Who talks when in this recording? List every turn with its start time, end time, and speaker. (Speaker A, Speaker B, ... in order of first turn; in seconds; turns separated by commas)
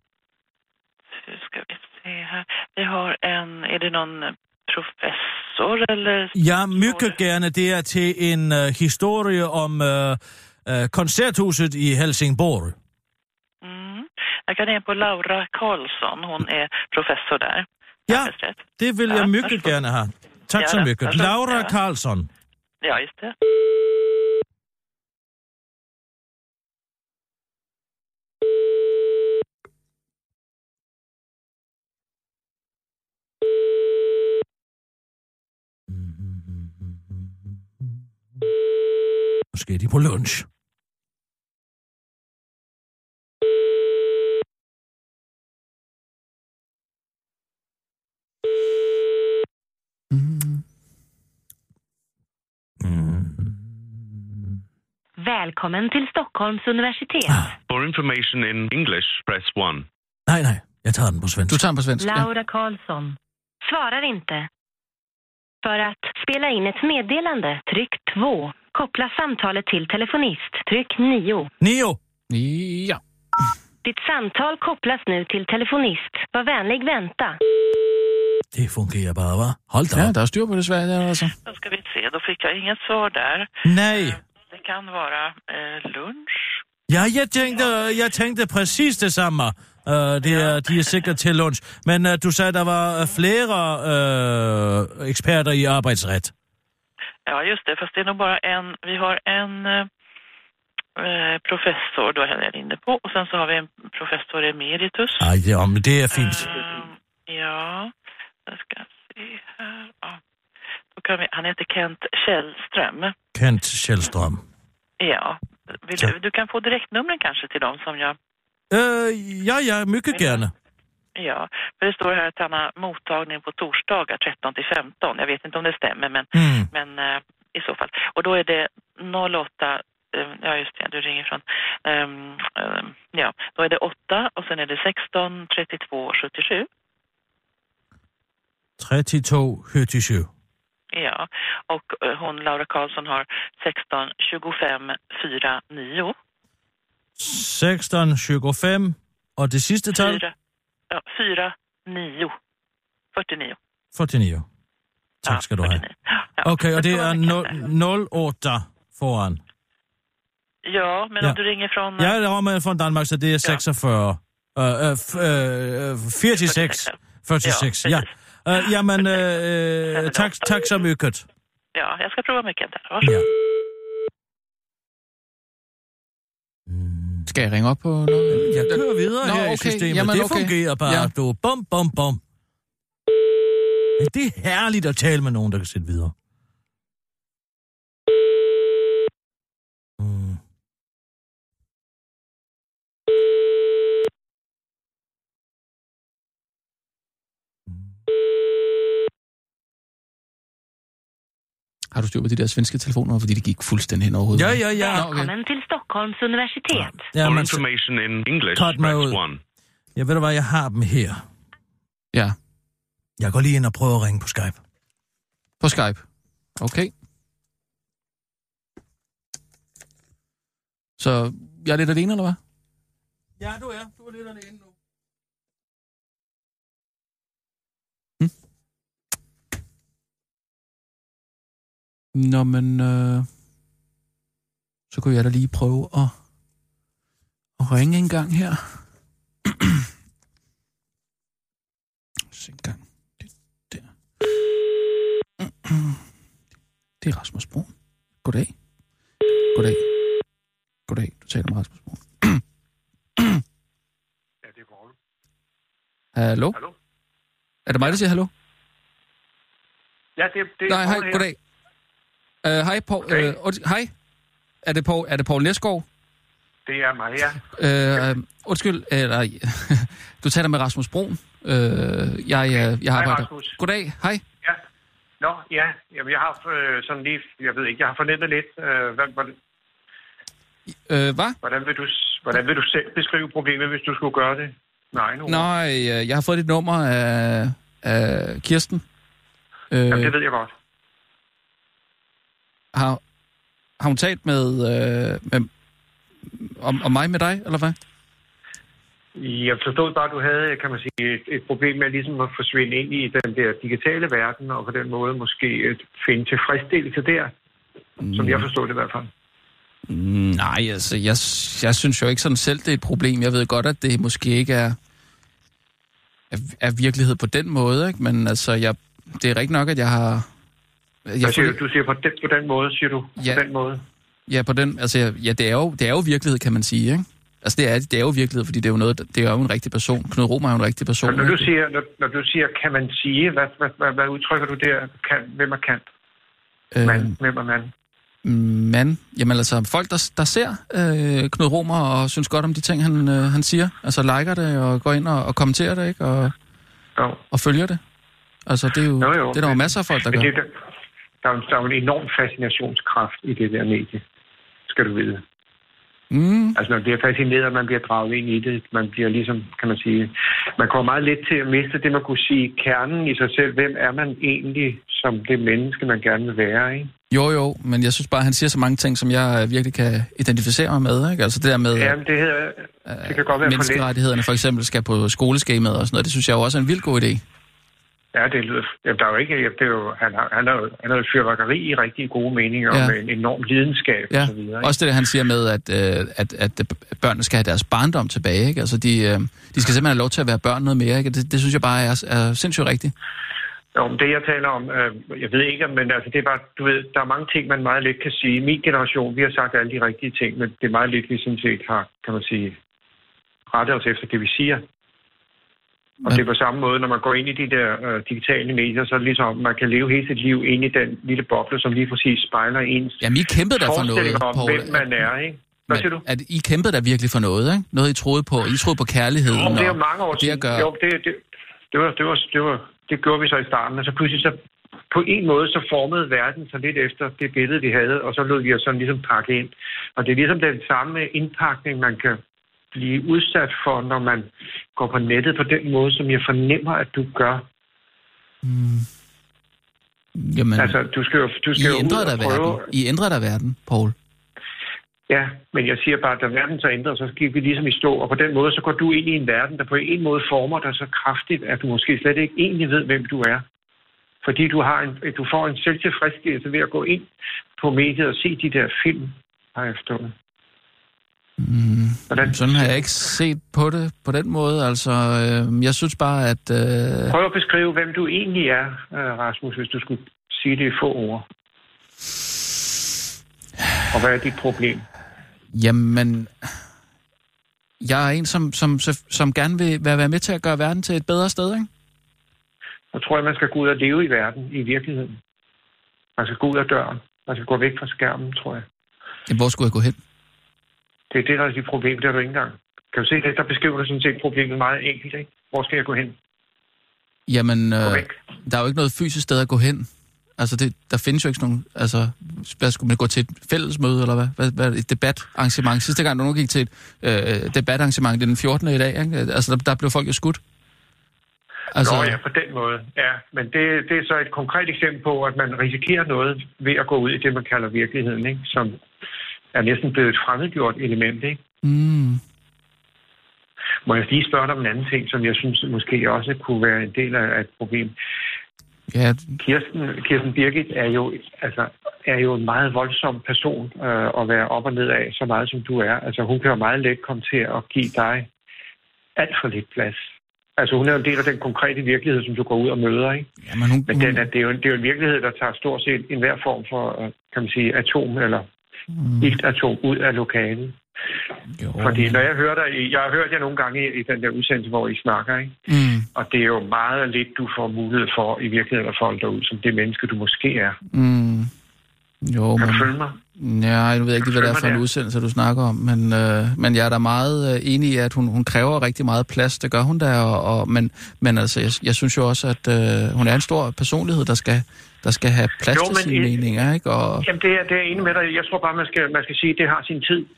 Speaker A: 1.2-7.1, Speaker B: 6.3-12.8, Speaker A: 13.6-19.8, Speaker B: 18.1-22.3, Speaker A: 20.6-21.7, Speaker A: 22.8-23.4, Speaker B: 35.9-38.0, Speaker B: 39.5-40.5, Speaker C: 50.1-50.6, Speaker B: 52.8-53.7, Speaker D: 55.2-57.5, Speaker E: 57.7-59.9, Speaker B: 60.3-61.6, Speaker C: 61.5-62.3, Speaker D: 62.0-64.5, Speaker D: 65.6-71.5, Speaker B: 71.6-72.0, Speaker C: 72.3-73.0, Speaker D: 73.8-77.4, Speaker B: 78.5-80.1, Speaker C: 80.0-81.3, Speaker A: 81.5-86.6, Speaker B: 83.6-84.2, Speaker B: 86.9-96.3, Speaker A: 90.2-90.9, Speaker A: 97.3-99.9, Speaker A: 101.0-105.3, Speaker B: 105.2-106.5, Speaker A: 106.1-107.9, Speaker A: 108.5-110.2, Speaker A: 111.0-113.1, Speaker B: 113.3-114.4, Speaker A: 115.0-118.2, Speaker B: 118.7-120.5, Speaker A: 120.1-120.4, Speaker A: 121.2-136.7, Speaker B: 126.3-126.7, Speaker B: 138.8-140.3, Speaker A: 140.9-146.1, Speaker B: 147.2-150.2, Speaker A: 149.9-150.3, Speaker A: 150.9-152.3, Speaker A: 153.1-153.6, Speaker B: 153.9-154.4, Speaker B: 155.2-155.8, Speaker A: 155.3-157.6, Speaker B: 156.4-159.4, Speaker A: 160.7-162.1, Speaker B: 162.0-171.3, Speaker A: 166.2-168.1, Speaker A: 169.9-170.5, Speaker A: 171.7-173.2, Speaker B: 173.0-173.3, Speaker B: 176.7-177.3, Speaker C: 177.3-181.1, Speaker B: 178.3-182.2, Speaker B: 184.0-186.1, Speaker B: 190.0-190.4, Speaker C: 201.9-205.3, Speaker B: 204.3-205.0, Speaker D: 204.7-207.1, Speaker B: 206.7-207.6, Speaker E: 207.1-209.4, Speaker B: 208.5-209.2, Speaker B: 209.9-211.2, Speaker B: 213.2-214.6, Speaker C: 215.6-216.0, Speaker C: 216.6-216.9, Speaker C: 221.0-222.4, Speaker B: 223.4-224.6, Speaker C: 232.1-233.3, Speaker C: 234.9-236.1, Speaker C: 237.6-238.7, Speaker C: 239.5-239.8, Speaker C: 242.3-243.9, Speaker C: 245.4-246.0, Speaker C: 247.0-247.7, Speaker C: 248.2-248.5, Speaker C: 249.5-249.8, Speaker C: 250.9-252.4, Speaker C: 253.2-253.4, Speaker F: 254.4-254.9, Speaker C: 256.2-256.6, Speaker C: 257.7-258.3, Speaker F: 260.2-261.3, Speaker C: 260.7-261.4, Speaker C: 262.4-263.9, Speaker F: 263.1-263.4, Speaker C: 264.6-265.9, Speaker F: 266.7-268.0, Speaker C: 267.6-274.2, Speaker F: 272.6-273.6, Speaker F: 275.2-279.4, Speaker C: 280.9-281.4, Speaker F: 281.4-285.4, Speaker C: 285.3-288.8, Speaker C: 289.7-290.1, Speaker F: 289.9-290.5, Speaker C: 292.7-293.0, Speaker C: 293.8-295.5, Speaker C: 296.3-297.8, Speaker F: 299.2-307.3, Speaker C: 308.0-308.5, Speaker F: 308.1-309.1, Speaker C: 309.9-314.8, Speaker C: 316.3-320.3, Speaker C: 321.1-321.6, Speaker F: 321.2-323.8, Speaker C: 323.2-323.4, Speaker C: 324.3-331.5, Speaker F: 331.0-335.9, Speaker C: 336.7-337.2, Speaker F: 336.8-337.7, Speaker C: 338.2-346.3, Speaker F: 347.0-347.2, Speaker C: 347.3-347.8, Speaker C: 348.4-350.3, Speaker F: 349.0-350.5, Speaker F: 351.2-354.0, Speaker F: 354.7-355.2, Speaker C: 356.1-356.6, Speaker F: 356.6-366.9, Speaker C: 367.1-372.0, Speaker F: 371.7-373.9, Speaker C: 372.9-377.2, Speaker F: 378.1-384.7, Speaker C: 384.1-392.9, Speaker F: 393.7-402.6, Speaker F: 403.5-404.6, Speaker F: 406.1-413.0, Speaker C: 413.0-415.1, Speaker F: 413.6-416.0, Speaker C: 415.7-420.7, Speaker F: 419.3-424.4, Speaker F: 424.9-432.2, Speaker F: 432.7-437.4, Speaker C: 438.4-438.9, Speaker C: 440.2-440.8, Speaker F: 440.6-442.7, Speaker C: 441.5-443.9, Speaker F: 445.1-453.4, Speaker F: 454.2-460.1, Speaker C: 461.4-467.1, Speaker F: 462.1-463.1, Speaker F: 467.1-471.2, Speaker F: 473.9-474.9, Speaker C: 475.5-476.5, Speaker C: 477.8-481.7, Speaker F: 482.9-485.2, Speaker F: 486.2-488.6, Speaker C: 489.3-490.0, Speaker F: 491.1-496.2, Speaker C: 497.3-510.4, Speaker F: 497.8-498.1, Speaker C: 511.7-512.2, Speaker F: 511.8-518.8, Speaker F: 519.5-521.4, Speaker C: 521.6-522.2, Speaker F: 523.9-527.9, Speaker C: 528.9-529.4, Speaker F: 529.4-538.3, Speaker F: 539.2-540.0, Speaker F: 540.6-543.3, Speaker C: 543.5-544.3, Speaker F: 543.9-548.5, Speaker C: 548.9-549.4, Speaker F: 549.2-550.8, Speaker C: 551.6-552.2, Speaker F: 551.8-555.6, Speaker C: 555.7-556.1, Speaker F: 556.1-560.8, Speaker C: 560.9-561.5, Speaker C: 562.2-577.3, Speaker F: 562.6-563.2, Speaker F: 564.2-564.8, Speaker F: 575.7-576.5, Speaker F: 577.2-580.3